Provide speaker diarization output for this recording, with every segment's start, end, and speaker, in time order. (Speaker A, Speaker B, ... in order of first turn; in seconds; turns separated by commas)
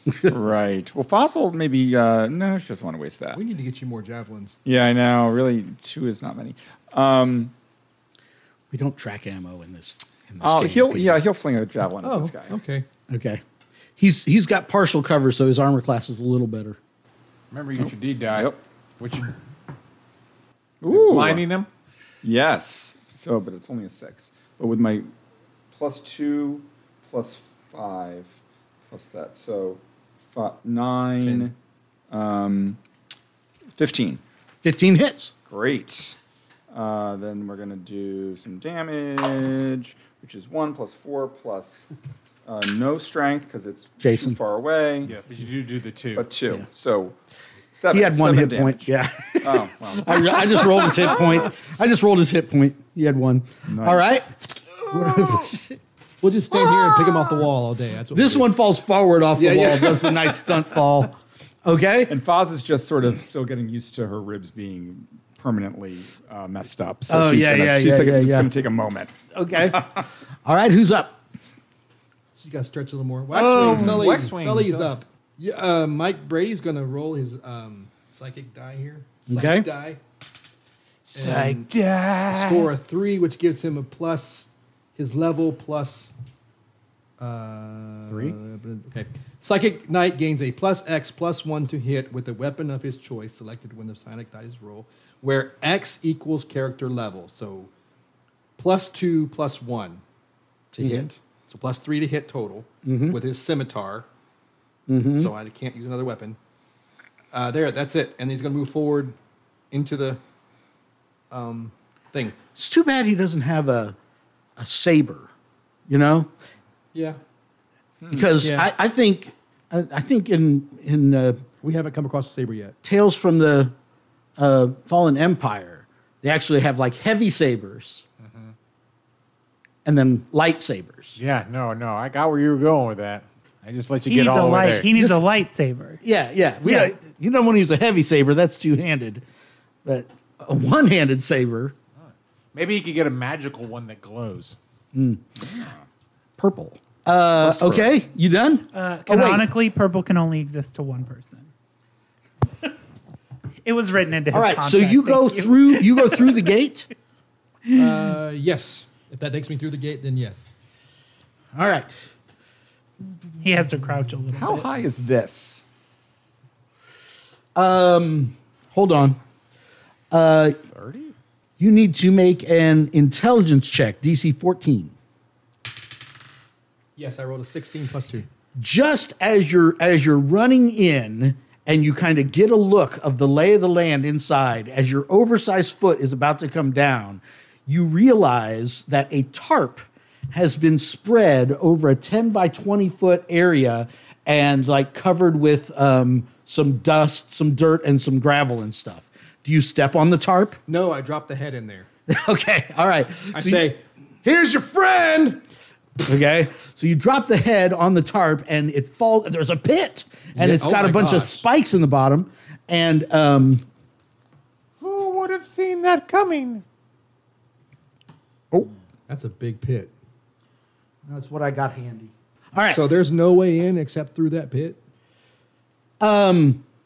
Speaker A: 0.2-3.4, Speaker B: 3.3-4.6, Speaker A: 4.6-7.5, Speaker C: 8.7-11.2, Speaker A: 10.4-12.6, Speaker B: 12.0-12.8, Speaker C: 13.1-13.4, Speaker C: 14.0-16.8, Speaker D: 17.5-19.3, Speaker A: 18.3-18.6, Speaker A: 20.8-21.4, Speaker D: 20.8-21.7, Speaker A: 22.2-25.1, Speaker A: 25.7-28.4, Speaker A: 28.9-29.8, Speaker A: 30.3-31.5, Speaker B: 31.2-31.5, Speaker A: 32.1-32.8, Speaker A: 33.7-34.2, Speaker C: 34.6-35.3, Speaker A: 35.5-36.1, Speaker A: 36.7-41.9, Speaker A: 42.5-45.1, Speaker C: 44.0-44.4, Speaker D: 45.0-46.3, Speaker A: 46.1-47.1, Speaker A: 47.8-51.0, Speaker C: 47.9-54.3, Speaker A: 53.7-54.2, Speaker C: 54.9-55.8, Speaker B: 56.2-58.5, Speaker C: 56.5-57.3, Speaker C: 58.1-61.1, Speaker B: 59.3-60.8, Speaker C: 61.6-62.2, Speaker A: 62.1-70.0, Speaker C: 67.1-68.5, Speaker C: 69.3-71.2, Speaker B: 72.4-80.0, Speaker D: 73.3-74.9, Speaker C: 73.5-73.9, Speaker C: 79.3-79.7, Speaker D: 81.1-82.7, Speaker B: 81.1-81.7, Speaker B: 82.3-86.1, Speaker B: 87.2-97.7, Speaker D: 88.1-88.4, Speaker B: 98.6-100.0, Speaker B: 100.7-104.1, Speaker C: 100.8-101.1, Speaker C: 102.8-103.2, Speaker C: 104.9-105.3, Speaker B: 105.2-106.4, Speaker B: 107.3-109.1, Speaker B: 109.7-110.2, Speaker B: 111.3-112.3, Speaker C: 112.5-114.0, Speaker C: 114.6-115.3, Speaker C: 115.9-116.3, Speaker B: 116.9-117.2, Speaker A: 118.0-118.3, Speaker C: 118.1-121.4, Speaker B: 118.4-118.7, Speaker B: 121.6-122.8, Speaker C: 122.8-123.7, Speaker C: 124.4-128.0, Speaker D: 128.2-128.5, Speaker C: 129.8-131.2, Speaker D: 131.2-134.9, Speaker E: 134.1-136.0, Speaker C: 134.3-135.2, Speaker C: 136.0-139.2, Speaker E: 136.6-136.9, Speaker C: 139.8-141.7, Speaker D: 142.0-144.6, Speaker C: 144.9-145.4, Speaker A: 145.4-145.8, Speaker C: 146.4-149.5, Speaker A: 147.4-147.9, Speaker E: 148.7-151.5, Speaker E: 153.6-156.5, Speaker C: 154.3-156.9, Speaker E: 157.7-158.0, Speaker B: 157.7-160.5, Speaker C: 161.5-162.0, Speaker E: 163.4-164.7, Speaker A: 164.3-165.6, Speaker C: 167.5-169.2, Speaker C: 170.1-170.6, Speaker D: 170.7-171.1, Speaker C: 171.6-174.9, Speaker B: 176.9-178.3, Speaker C: 178.6-200.6, Speaker B: 200.7-201.9, Speaker C: 202.1-203.7, Speaker B: 203.3-205.4, Speaker C: 206.0-213.6, Speaker B: 210.3-211.4, Speaker D: 214.8-216.6, Speaker B: 219.1-219.9, Speaker C: 221.1-222.8, Speaker B: 222.7-224.8, Speaker C: 226.0-226.6